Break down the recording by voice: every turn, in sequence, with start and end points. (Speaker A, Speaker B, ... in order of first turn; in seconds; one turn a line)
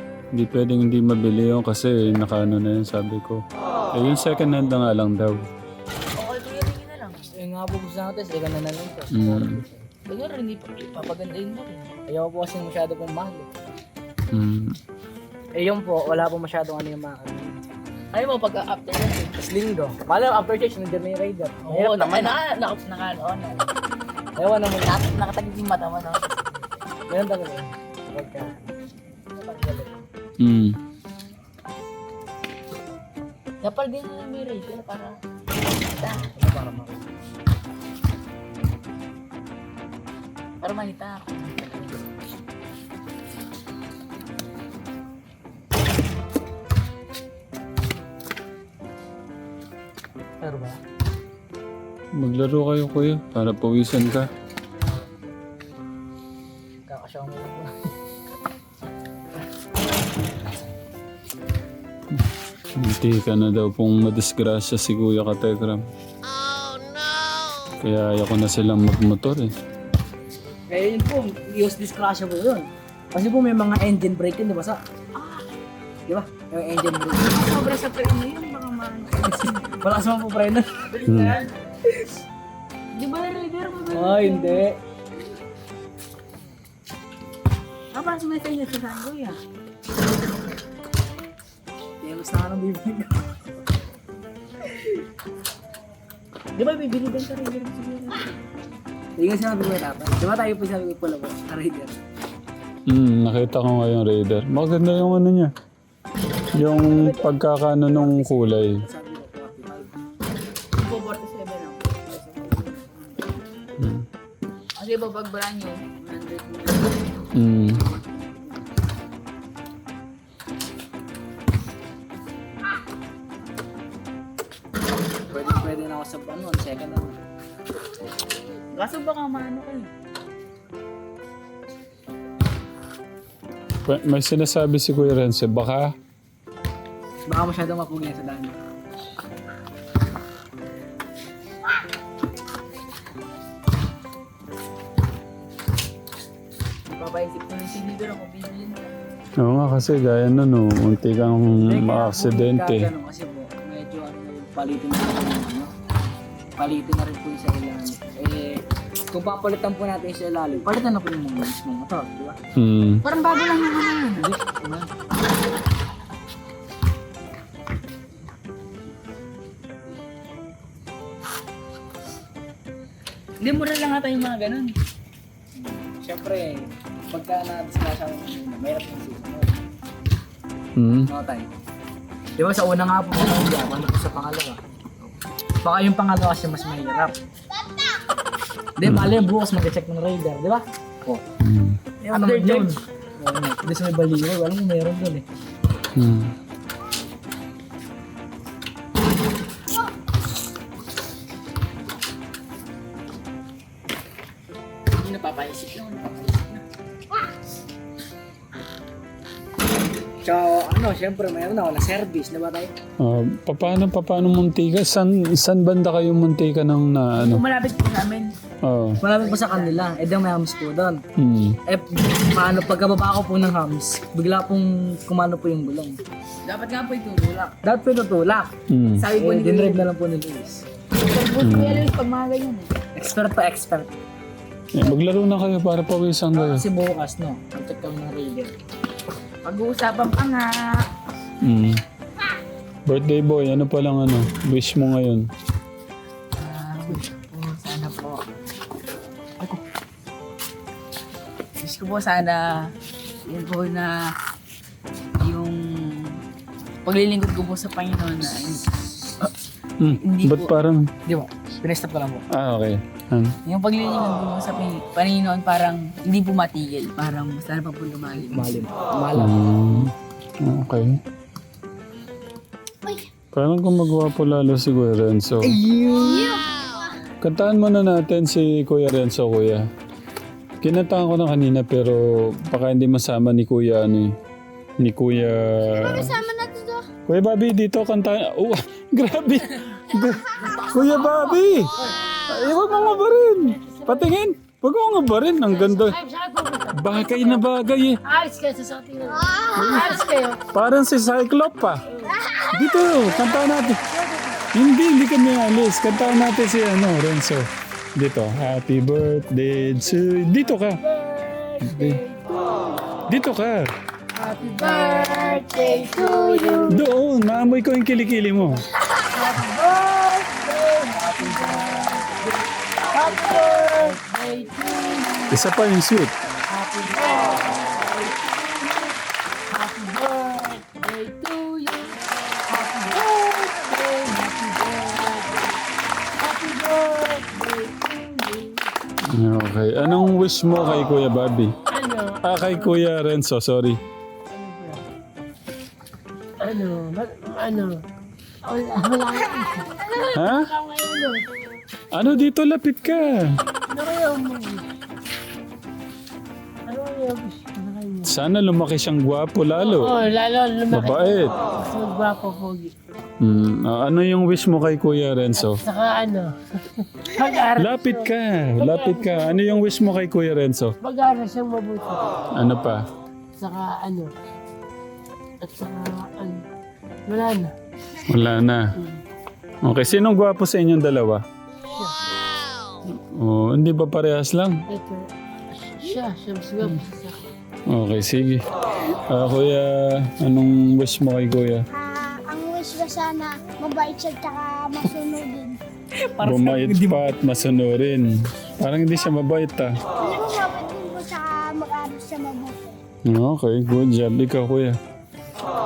Speaker A: 0.3-5.4
Speaker B: 6.2-7.2
Speaker C: 7.3-9.9
Speaker A: 9.1-9.6
Speaker B: 10.1-11.9
Speaker C: 12.1-13.5
Speaker A: 14.3-14.8
Speaker C: 15.6-17.7
Speaker B: 18.1-19.3
Speaker C: 19.4-22.4
Speaker B: 21.7-23.7
Speaker C: 24.4-25.1
Speaker B: 24.8-26.5
Speaker C: 27.1-28.7
Speaker C: 29.4-30.1
Speaker A: 30.4-30.8
Speaker B: 33.6-35.2
Speaker C: 36.0-37.1
Speaker B: 36.0-36.3
Speaker B: 40.6-42.0
Speaker C: 50.4-50.8
Speaker A: 52.1-54.3
Speaker C: 56.9-57.7
Speaker A: 62.1-65.8
Speaker A: 67.8-69.5
Speaker C: 70.7-74.8
Speaker B: 75.2-75.5
Speaker C: 76.1-77.4
Speaker B: 77.2-79.7
Speaker C: 79.4-80.8
Speaker B: 80.9-81.5
Speaker A: 81.1-81.4
Speaker B: 82.9-84.6
Speaker C: 83.9-84.7
Speaker B: 87.9-89.4
Speaker C: 92.0-93.2
Speaker B: 96.5-98.3
Speaker C: 99.2-102.0
Speaker A: 102.9-105.5
Speaker A: 106.5-108.8
Speaker C: 106.6-107.2
Speaker C: 107.9-109.9
Speaker B: 110.7-113.4
Speaker A: 113.8-114.1
Speaker B: 114.8-117.2
Speaker A: 117.4-117.8
Speaker C: 125.3-127.2
Speaker B: 128.7-129.9
Speaker A: 133.8-135.9
Speaker C: 137.3-138.5
Speaker B: 146.9-148.9
Speaker A: 149.4-152.9
Speaker C: 151.6-155.7
Speaker C: 156.6-158.6
Speaker C: 159.1-162.4
Speaker A: 162.6-163.0
Speaker B: 163.0-164.6
Speaker C: 164.2-164.8
Speaker B: 173.4-174.7
Speaker C: 175.6-179.6
Speaker A: 180.8-181.1
Speaker C: 181.1-181.5
Speaker C: 182.4-184.6
Speaker C: 185.6-187.1
Speaker D: 186.5-188.0
Speaker C: 188.8-191.2
Speaker A: 188.8-189.1
Speaker A: 191.4-191.8
Speaker B: 192.0-192.7
Speaker C: 192.1-195.2
Speaker A: 195.9-196.3
Speaker B: 204.9-206.6
Speaker C: 210.2-212.7
Speaker A: 213.0-217.4
Speaker B: 217.2-218.3
Speaker A: 218.6-219.0
Speaker C: 219.0-221.0
Speaker B: 219.2-219.8
Speaker A: 221.2-221.6
Speaker C: 221.7-226.0
Speaker B: 226.4-227.6
Speaker C: 227.6-228.5
Speaker A: 228.7-229.1
Speaker B: 229.0-229.9
Speaker C: 229.1-230.6
Speaker B: 231.0-232.8
Speaker A: 231.4-231.9
Speaker C: 233.0-233.9
Speaker A: 234.7-236.7
Speaker C: 236.3-238.5
Speaker B: 239.4-240.7
Speaker A: 241.4-241.8
Speaker A: 242.9-245.3
Speaker B: 246.4-248.2
Speaker B: 251.6-252.7
Speaker B: 253.3-253.9
Speaker B: 255.2-256.2
Speaker B: 256.9-259.3
Speaker A: 259.8-260.9
Speaker B: 259.9-260.5
Speaker C: 261.1-262.2
Speaker A: 262.3-263.4
Speaker B: 263.4-268.7
Speaker C: 268.3-269.9
Speaker A: 269.2-271.0
Speaker A: 273.3-275.6
Speaker D: 275.7-276.9
Speaker C: 275.7-276.2
Speaker A: 277.2-279.7
Speaker A: 280.6-284.1
Speaker A: 284.8-286.2
Speaker D: 285.7-286.9
Speaker A: 287.1-291.8
Speaker D: 290.5-290.9
Speaker A: 292.3-296.0
Speaker E: 292.4-294.2
Speaker E: 295.5-297.5
Speaker A: 296.7-298.0
Speaker E: 298.1-300.4
Speaker D: 299.1-300.1
Speaker A: 299.6-301.8
Speaker E: 301.9-302.2
Speaker D: 302.1-302.8
Speaker A: 302.5-303.8
Speaker E: 302.9-304.5
Speaker A: 304.5-310.8
Speaker E: 310.1-312.8
Speaker A: 311.6-312.0
Speaker A: 313.1-313.7
Speaker E: 314.2-316.8
Speaker D: 314.6-316.6
Speaker A: 316.7-318.6
Speaker E: 319.1-322.1
Speaker E: 322.9-325.4
Speaker A: 325.3-326.1
Speaker E: 326.5-328.9
Speaker E: 329.5-335.5
Speaker E: 336.2-338.7
Speaker A: 339.1-341.5
Speaker E: 341.7-342.8
Speaker A: 342.2-343.8
Speaker E: 344.3-344.8
Speaker E: 346.4-347.8
Speaker E: 348.5-351.2
Speaker A: 350.1-350.5
Speaker A: 351.9-353.3
Speaker E: 353.7-354.7
Speaker E: 356.7-358.1
Speaker A: 358.1-359.9
Speaker E: 359.6-362.7
Speaker A: 360.7-361.3
Speaker A: 363.2-365.6
Speaker E: 365.4-369.7
Speaker A: 367.6-370.7
Speaker E: 370.8-372.1
Speaker A: 372.4-372.8
Speaker E: 373.4-374.1
Speaker E: 375.4-376.4
Speaker E: 377.1-377.5
Speaker A: 378.1-378.6
Speaker A: 379.6-381.2
Speaker E: 381.6-382.0
Speaker A: 382.9-384.6
Speaker E: 384.7-387.2
Speaker A: 387.7-391.6
Speaker D: 391.7-395.6
Speaker C: 396.1-397.3
Speaker A: 396.2-399.8
Speaker D: 400.0-402.8
Speaker A: 403.1-404.8